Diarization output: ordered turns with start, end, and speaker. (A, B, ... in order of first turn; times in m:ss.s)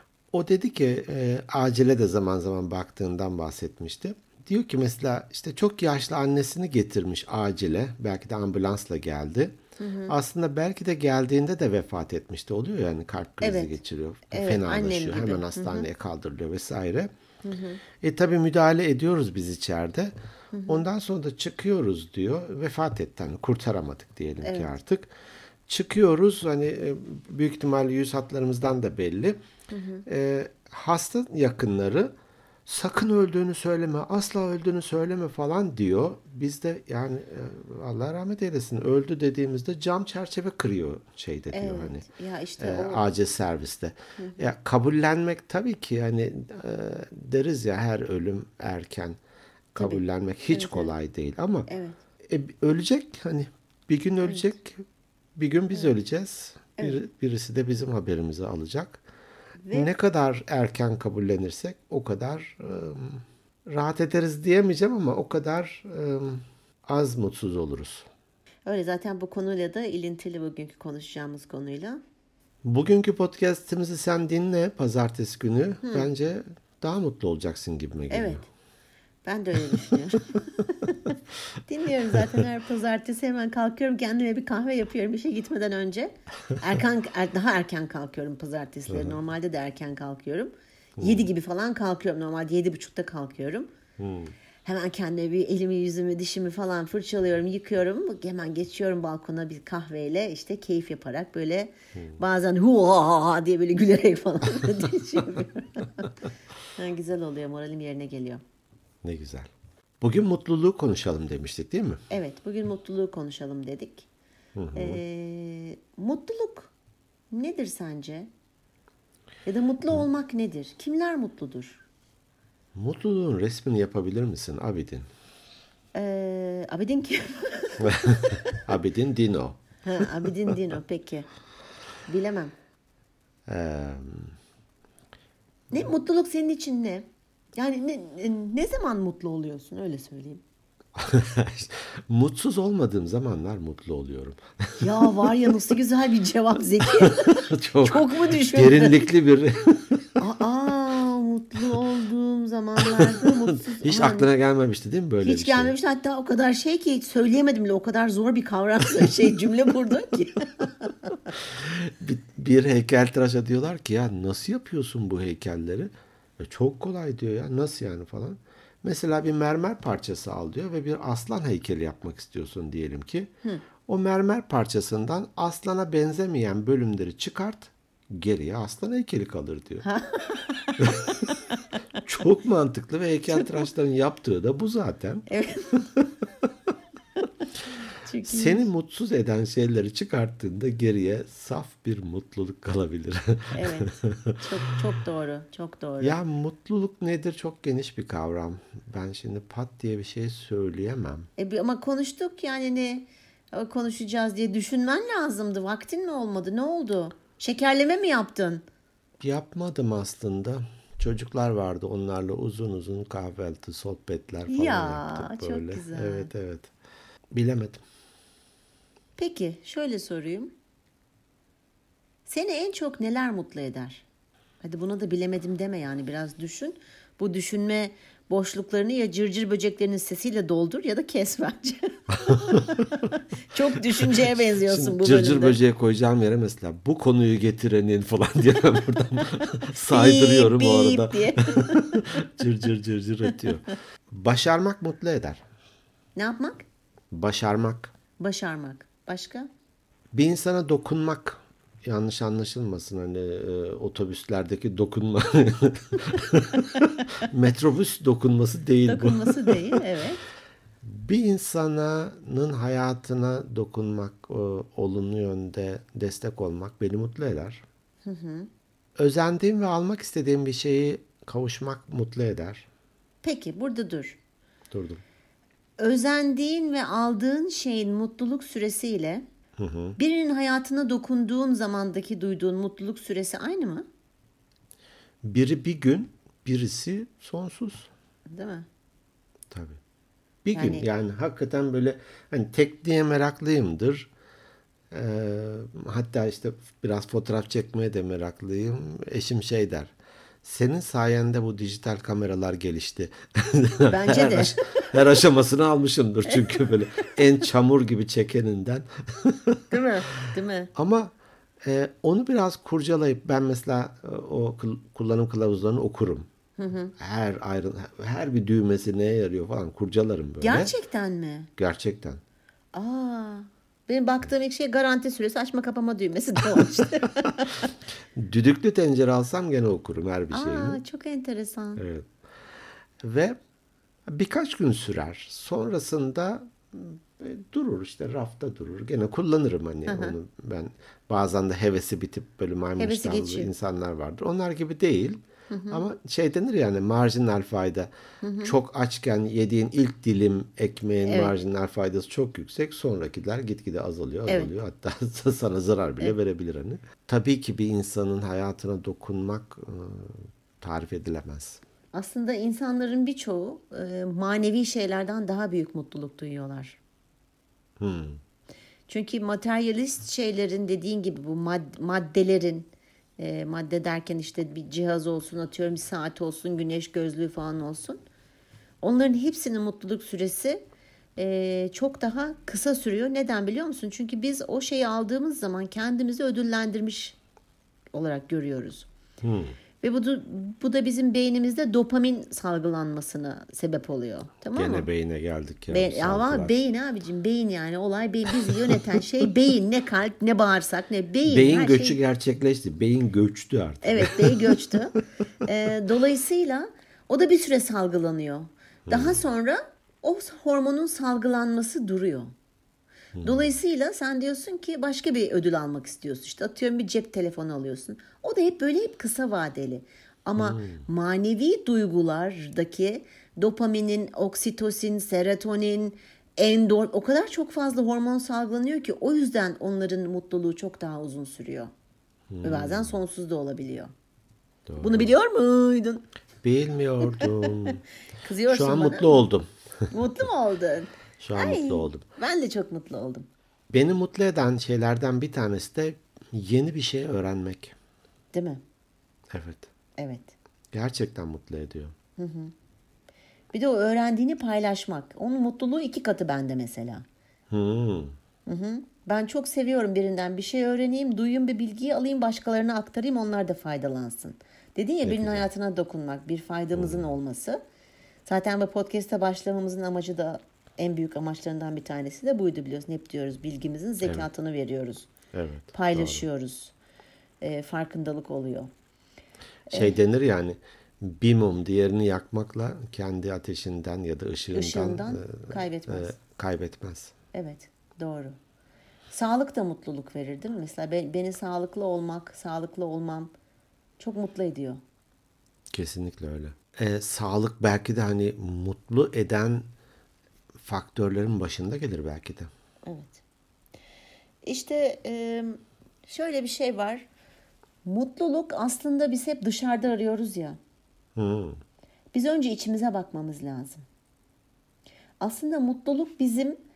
0:00.3-0:17.1 A
0:09.8-0:10.2 B
0:13.4-0:13.8 B
0:14.3-0:15.9 B
0:17.4-0:17.8 B
0:18.0-0:20.1 A
0:20.5-0:20.8 B
0:20.7-0:25.1 A
0:24.4-0:24.7 B
0:25.7-0:29.4 A
0:29.7-0:30.0 B
0:30.1-0:32.1 A
0:32.7-0:42.0 A
0:41.5-0:43.0 B
0:42.6-0:49.2 A
0:49.7-0:51.7 A
0:49.8-0:50.9 B
0:51.7-0:52.0 B
0:52.2-0:54.8 A
0:55.4-0:59.0 A
0:59.6-0:59.9 B
0:59.7-1:08.1 A
1:08.7-1:12.0 B
1:12.6-1:18.4 A
1:15.8-1:16.1 B
1:18.1-1:18.5 B
1:19.2-1:33.7 B
1:28.9-1:29.2 A
1:31.0-1:31.3 A
1:34.0-1:34.3 A
1:34.6-1:46.2 B
1:46.8-1:48.4 B
1:49.0-1:49.5 A
1:50.0-1:52.0 A
1:52.1-1:54.1 B
1:54.6-1:55.0 A
1:54.8-1:56.7 B
1:57.3-1:58.3 B
1:59.5-2:01.8 B
2:02.8-2:05.1 A
2:06.0-2:08.6 B
2:07.8-2:10.1 A
2:09.8-2:11.3 B
2:12.1-2:12.5 B
2:13.5-2:14.4 A
2:15.7-2:20.4 B
2:21.0-2:25.3 A
2:24.8-2:29.1 B
2:27.0-2:30.0 A
2:30.2-2:34.3 B
2:32.8-2:35.7 A
2:35.2-2:41.3 B
2:41.4-2:53.3 A
2:53.8-2:59.8 A
2:59.8-3:01.0 B
3:00.8-3:01.1 A
3:02.0-3:05.3 A
3:05.3-3:05.9 B
3:08.0-3:08.7 B
3:08.2-3:14.4 A
3:13.5-3:16.2 B
3:16.0-3:21.3 A
3:21.4-3:28.6 B
3:29.2-3:36.7 A
3:34.5-3:36.3 B
3:37.3-3:37.8 A
3:39.2-3:40.5 B
3:42.3-3:44.1 B
3:44.6-3:55.6 B
3:54.0-4:05.4 A
3:59.9-4:02.2 B
4:06.2-4:06.6 B
4:07.1-4:07.9 A
4:08.2-4:09.5 B
4:10.1-4:19.8 A
4:18.9-4:20.2 B
4:20.8-4:27.6 A
4:28.0-4:28.5 B
4:29.0-4:32.7 A
4:33.2-4:34.2 B
4:34.7-4:35.0 A
4:35.8-4:39.2 B
4:39.6-4:40.0 A
4:40.0-4:43.8 B
4:45.2-4:47.9 A
4:48.3-4:48.7 B
4:49.5-4:49.8 A
4:50.4-4:54.1 A
4:50.5-4:50.9 B
4:54.9-4:59.9 A
5:00.4-5:09.6 A
5:03.9-5:05.0 B
5:06.3-5:07.2 B
5:09.7-5:10.7 B
5:10.8-5:11.1 A
5:11.6-5:16.3 A
5:16.6-5:16.9 B
5:17.0-5:20.7 A
5:20.4-5:21.5 B
5:21.6-5:22.2 A
5:22.7-5:27.7 B
5:28.2-5:30.8 A
5:30.3-5:31.8 B
5:31.8-5:32.1 A
5:33.0-5:33.4 A
5:34.1-5:47.9 A
5:39.9-5:40.2 B
5:42.8-5:43.5 B
5:45.5-5:45.8 B
5:48.2-5:48.6 B
5:48.4-6:01.6 A
5:51.0-5:51.4 B
5:54.3-5:54.5 B
6:01.9-6:06.8 B
6:07.8-6:08.2 A
6:08.9-6:12.7 B
6:13.2-6:18.0 B
6:18.8-6:20.6 B
6:21.2-6:27.2 B
6:27.9-6:28.9 B
6:29.2-6:29.6 A
6:29.8-6:34.9 B
6:34.6-6:36.5 A
6:35.7-6:42.0 B
6:38.5-6:38.8 A
6:41.2-6:44.8 A
6:43.8-6:52.3 B
6:48.9-6:49.2 A
6:53.2-6:53.6 A
6:53.2-7:11.7 B
7:00.4-7:00.9 A
7:12.3-7:13.0 A
7:12.4-7:13.9 B
7:14.7-7:15.1 A
7:14.8-7:16.0 B
7:16.4-7:17.8 A
7:17.2-7:17.5 B
7:18.2-7:19.2 B
7:18.5-7:19.5 A
7:19.9-7:23.3 B
7:21.2-7:22.0 A
7:23.7-7:27.8 A
7:28.3-7:28.6 B
7:29.3-7:29.7 A
7:30.0-7:30.3 B
7:30.7-7:31.9 A
7:32.2-7:32.5 B
7:33.5-7:37.0 B
7:37.5-7:38.1 A
7:38.5-7:47.6 B
7:45.0-7:45.5 A
7:46.8-7:47.1 A
7:48.3-7:55.1 B
7:55.3-7:56.2 A
7:55.7-7:56.7 B
7:57.4-7:58.7 B
7:59.7-8:00.0 B
7:59.7-8:07.1 A
8:04.5-8:06.2 B
8:07.3-8:08.4 B
8:09.1-8:13.3 B
8:14.0-8:14.8 B
8:15.7-8:19.6 A
8:20.6-8:22.5 A
8:22.9-8:23.2 B
8:24.4-8:27.1 B
8:27.8-8:30.6 B
8:31.2-8:31.6 A
8:32.1-8:33.8 B
8:35.2-8:36.6 B